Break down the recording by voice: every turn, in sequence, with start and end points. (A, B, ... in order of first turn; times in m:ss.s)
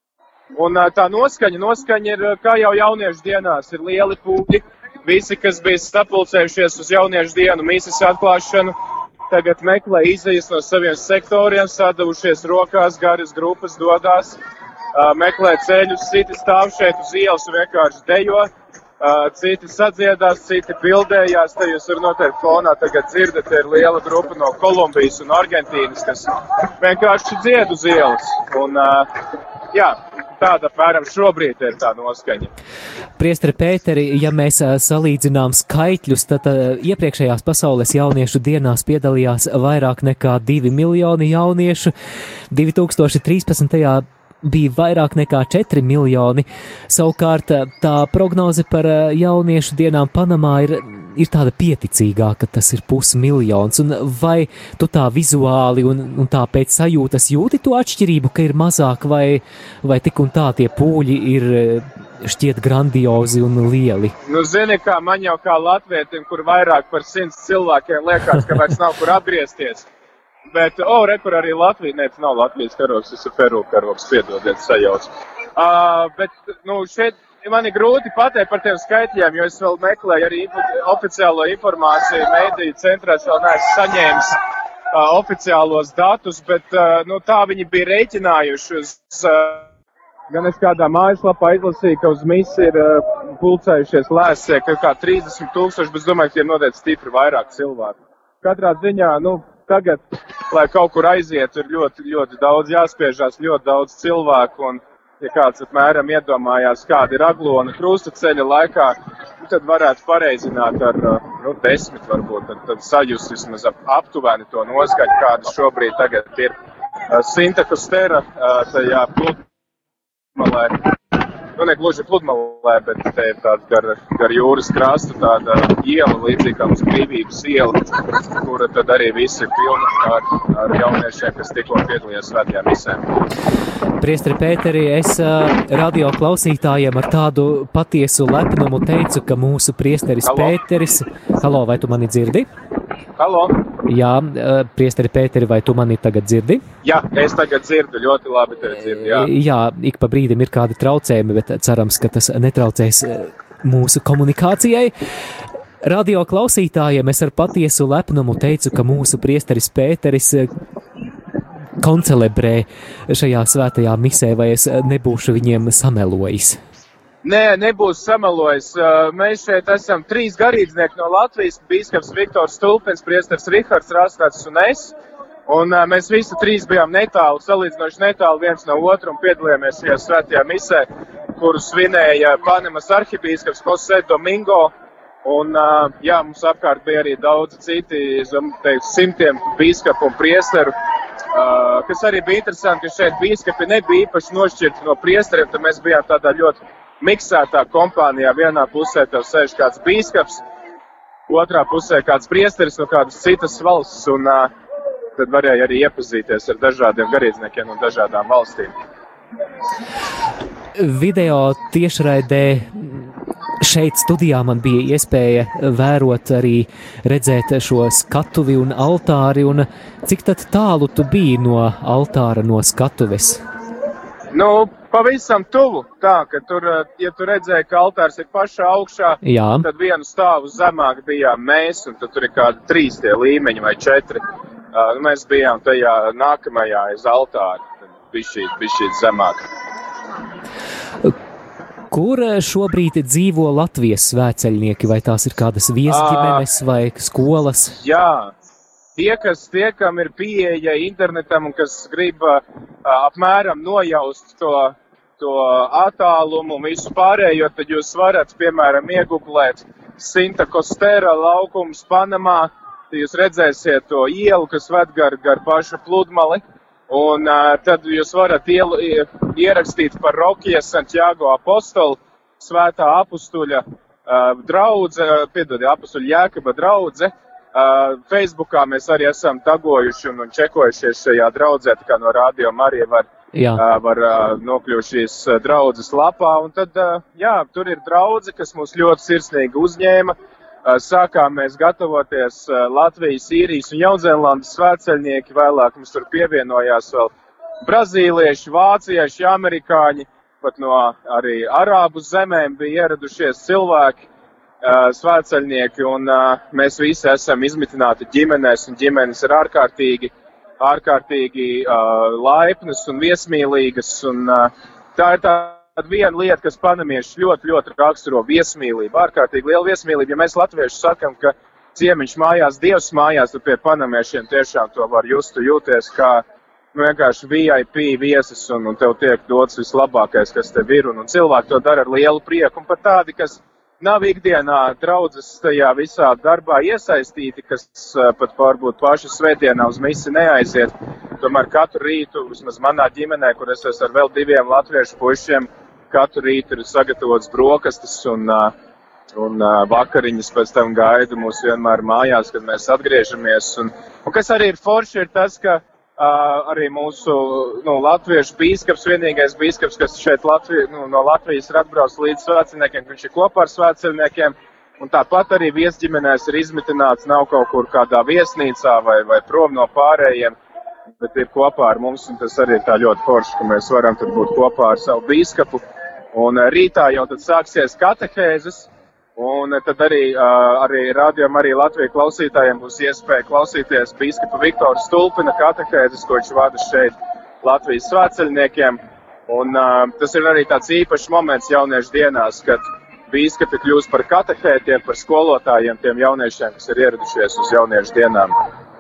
0:00.6-0:08.7 A
0:09.3-0:14.4 A
0:14.9-0:18.5 A
0:19.0-0:29.1 A
0:29.7-0:32.5 A
0:33.2-0:41.9 B
0:42.5-1:04.2 B
1:04.3-1:09.9 A
1:10.5-1:24.4 A
1:24.9-1:29.7 A
1:30.3-1:56.5 A
1:57.1-1:59.4 A
2:00.4-2:00.8 A
2:01.6-2:13.0 A
2:14.0-2:22.5 B
2:20.2-2:20.6 A
2:23.2-2:23.7 A
2:23.9-2:26.6 B
2:26.8-2:29.3 A
2:29.0-2:34.9 B
2:35.8-2:40.5 B
2:41.8-2:46.6 B
2:47.2-2:55.0 A
2:55.5-3:04.7 A
3:05.2-3:10.7 A
3:11.3-3:20.4 A
3:21.3-3:24.5 A
3:25.2-3:28.7 A
3:30.8-3:33.1 B
3:33.6-3:43.4 B
3:44.3-3:54.2 A
3:49.2-3:49.7 B
3:54.7-3:59.5 A
4:01.9-4:07.8 B
4:05.9-4:06.4 A
4:07.8-4:08.3 A
4:09.0-4:57.1 A
4:43.3-4:43.6 B
4:57.7-5:04.0 A
5:04.6-5:48.5 A
5:49.2-6:10.4 A
6:11.0-6:38.3 A